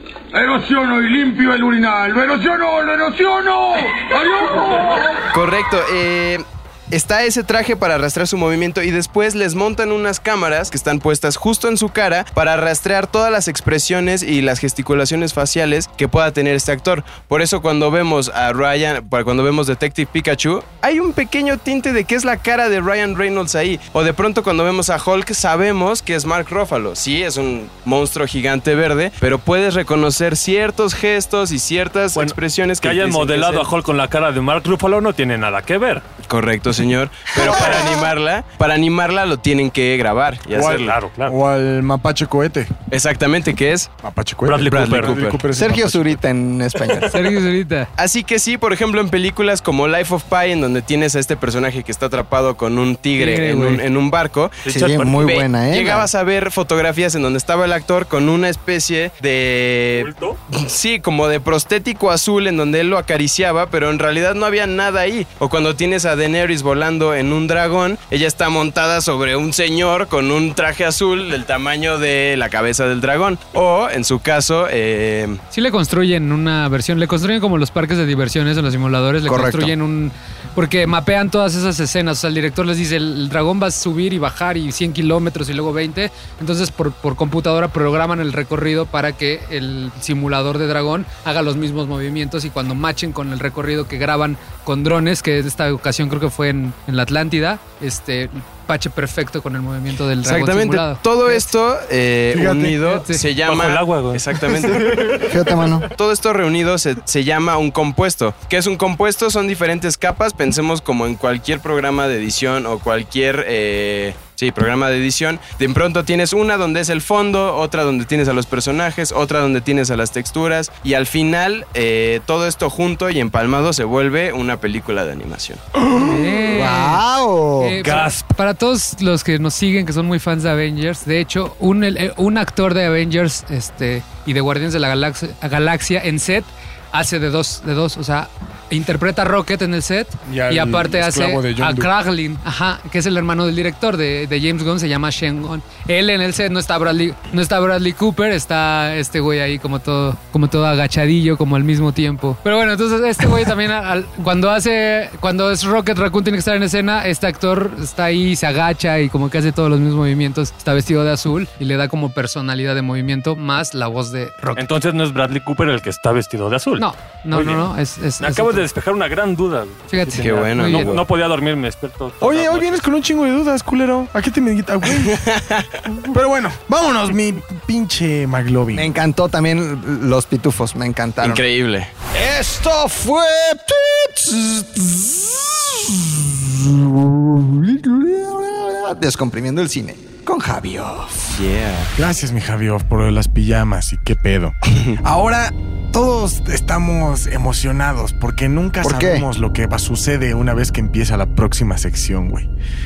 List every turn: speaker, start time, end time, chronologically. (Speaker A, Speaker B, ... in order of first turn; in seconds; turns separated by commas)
Speaker A: 0.3-5.2, Speaker B: 5.3-33.7, Speaker C: 32.1-36.0, Speaker B: 36.3-40.9, Speaker D: 37.4-38.1, Speaker E: 40.5-42.7, Speaker C: 40.7-41.4, Speaker B: 42.9-43.9, Speaker E: 44.0-46.2, Speaker C: 44.5-45.2, Speaker B: 44.7-45.4, Speaker D: 45.5-47.2, Speaker F: 47.1-47.9, Speaker B: 48.0-75.4, Speaker F: 53.2-53.8, Speaker C: 54.6-55.3, Speaker D: 54.7-56.1, Speaker C: 60.0-60.4, Speaker F: 75.5-101.5, Speaker D: 79.3-79.8, Speaker B: 100.2-105.2, Speaker E: 102.3-102.9, Speaker F: 102.8-103.3, Speaker C: 103.4-104.4, Speaker D: 105.2-105.9, Speaker B: 105.9-125.6, Speaker D: 125.9-128.0, Speaker F: 125.9-127.0, Speaker F: 127.6-164.7, Speaker C: 127.8-128.3, Speaker E: 140.3-141.9, Speaker C: 164.6-172.9, Speaker F: 166.8-168.7, Speaker F: 169.9-171.0, Speaker B: 170.2-171.1, Speaker E: 172.2-175.3, Speaker B: 175.0-175.8, Speaker E: 176.1-178.9, Speaker D: 178.7-181.4, Speaker B: 181.2-181.9, Speaker D: 182.1-191.4, Speaker B: 191.3-191.9, Speaker E: 192.0-202.5, Speaker D: 198.8-199.3